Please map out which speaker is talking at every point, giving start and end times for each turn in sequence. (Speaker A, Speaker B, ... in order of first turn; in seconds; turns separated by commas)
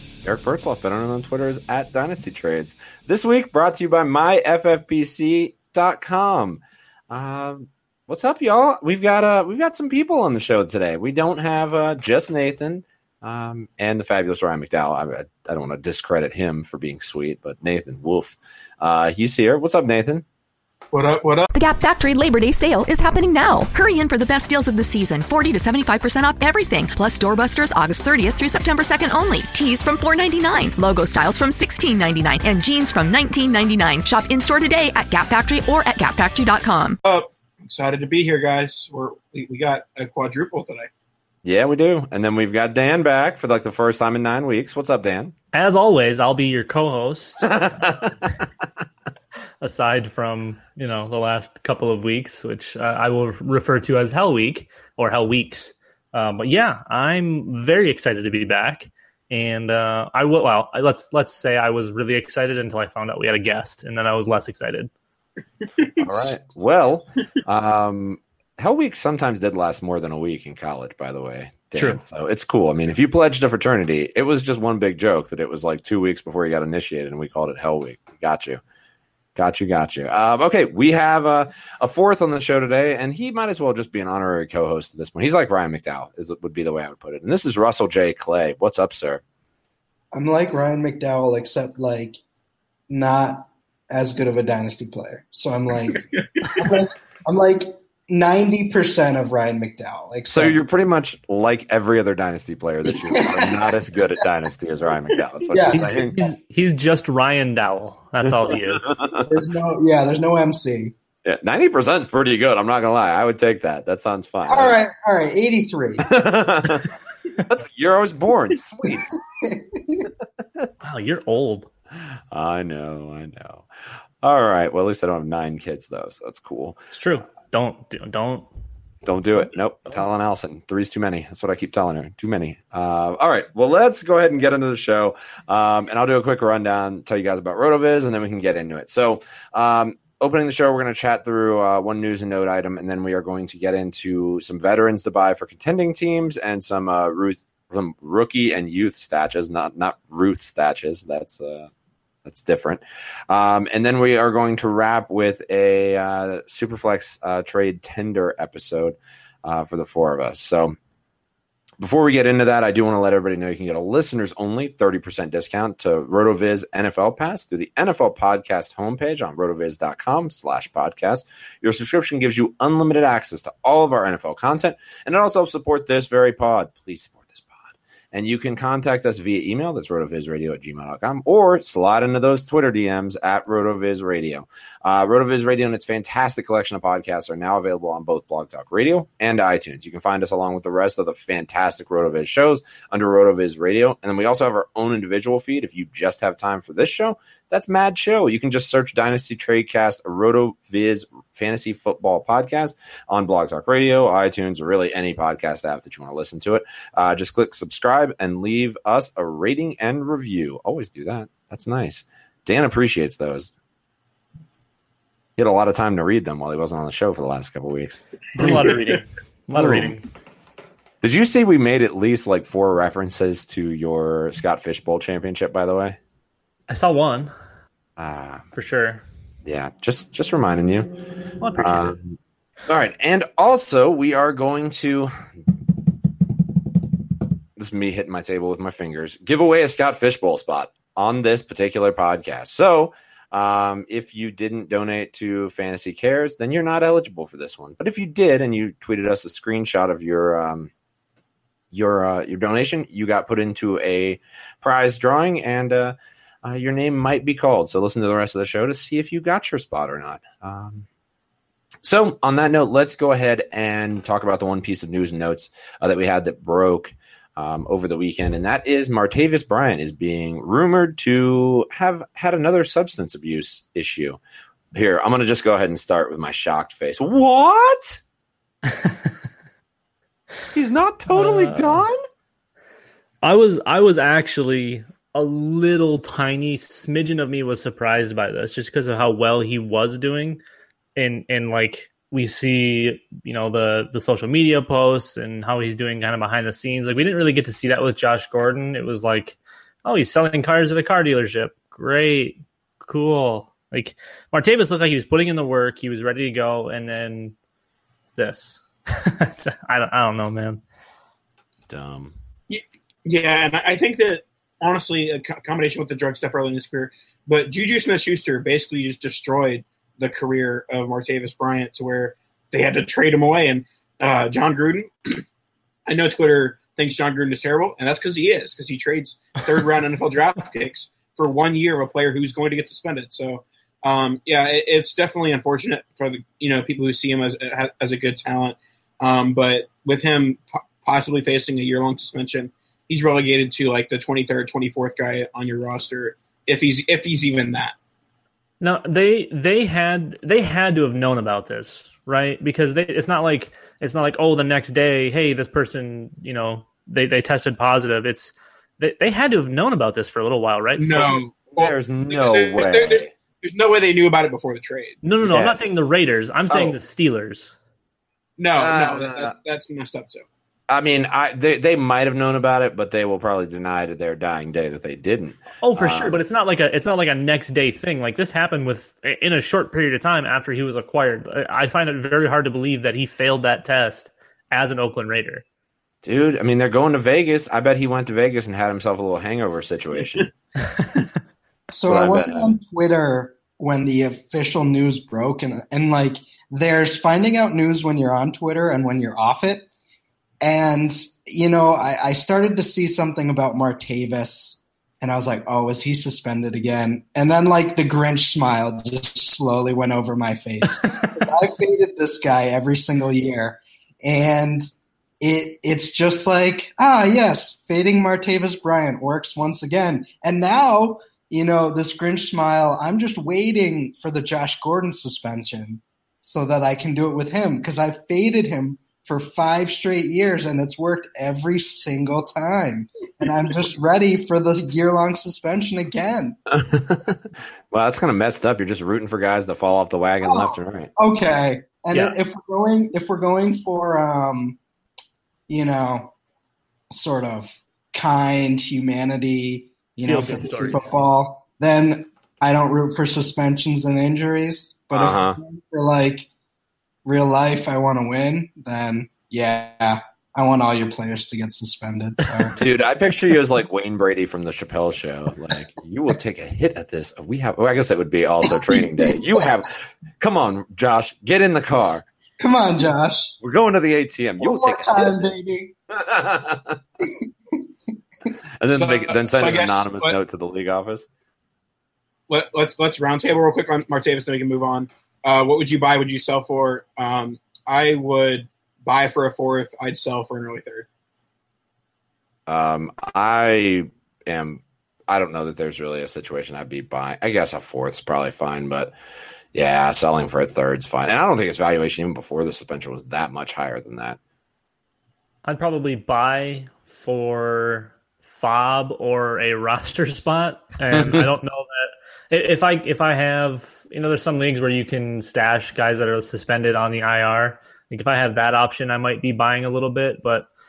Speaker A: 0.2-20.2, Speaker B: 20.9-21.5, Speaker C: 21.5-37.0, Speaker B: 37.0-40.9, Speaker A: 41.4-45.3, Speaker D: 45.5-47.5, Speaker A: 47.4-48.3, Speaker D: 49.6-64.9, Speaker B: 65.8-66.3, Speaker A: 66.0-78.6, Speaker A: 79.3-89.2, Speaker E: 90.1-92.2, Speaker E: 92.9-96.0, Speaker B: 95.9-96.5, Speaker E: 96.5-100.6, Speaker A: 100.3-106.2, Speaker E: 102.9-103.8, Speaker E: 105.5-106.3, Speaker D: 106.1-108.9, Speaker A: 108.2-109.3, Speaker E: 109.3-110.9, Speaker A: 111.2-114.8, Speaker E: 114.5-116.0, Speaker A: 116.1-116.9, Speaker A: 117.5-119.0, Speaker E: 118.8-120.1, Speaker D: 120.8-121.7, Speaker A: 122.3-123.7, Speaker A: 124.2-126.8, Speaker D: 126.9-128.4, Speaker A: 129.0-151.7, Speaker A: 152.2-160.8, Speaker A: 161.8-213.5, Speaker A: 215.4-218.6, Speaker D: 218.3-220.0, Speaker A: 219.5-219.9, Speaker A: 221.0-226.0, Speaker D: 226.7-227.3, Speaker A: 228.0-228.4, Speaker D: 228.5-229.0, Speaker A: 229.4-230.9, Speaker D: 231.4-232.0, Speaker A: 231.6-235.1, Speaker A: 237.6-250.7, Speaker A: 251.7-260.9, Speaker A: 261.8-274.2, Speaker A: 274.7-278.0, Speaker D: 278.7-279.1, Speaker A: 280.5-281.9, Speaker D: 281.1-281.9, Speaker D: 283.2-290.4, Speaker D: 290.9-307.3, Speaker D: 308.2-310.6, Speaker A: 311.7-312.1, Speaker B: 312.5-325.2, Speaker B: 325.9-347.7, Speaker D: 348.6-361.2, Speaker B: 360.8-365.0, Speaker A: 361.6-363.1, Speaker D: 365.0-367.5, Speaker A: 365.2-365.7, Speaker A: 366.5-366.8, Speaker B: 368.4-370.2, Speaker A: 368.5-369.3, Speaker A: 370.7-376.2, Speaker D: 375.6-385.4, Speaker A: 386.0-390.3, Speaker D: 390.7-391.0, Speaker E: 391.7-399.7, Speaker A: 391.9-392.5, Speaker E: 400.4-414.7, Speaker E: 415.2-436.4, Speaker A: 436.5-437.2, Speaker A: 437.7-440.9, Speaker E: 440.2-444.6, Speaker E: 445.5-446.1, Speaker E: 446.9-456.3, Speaker D: 450.0-450.9, Speaker A: 454.9-455.4, Speaker E: 457.0-462.6, Speaker A: 462.6-472.1, Speaker E: 468.4-469.5, Speaker E: 472.4-473.3, Speaker A: 473.4-475.4, Speaker E: 474.4-475.7, Speaker A: 475.9-476.8, Speaker E: 477.0-477.6, Speaker A: 478.6-481.1, Speaker B: 478.7-480.1, Speaker B: 482.3-490.9, Speaker A: 492.5-498.9, Speaker A: 499.5-504.2, Speaker D: 505.4-520.5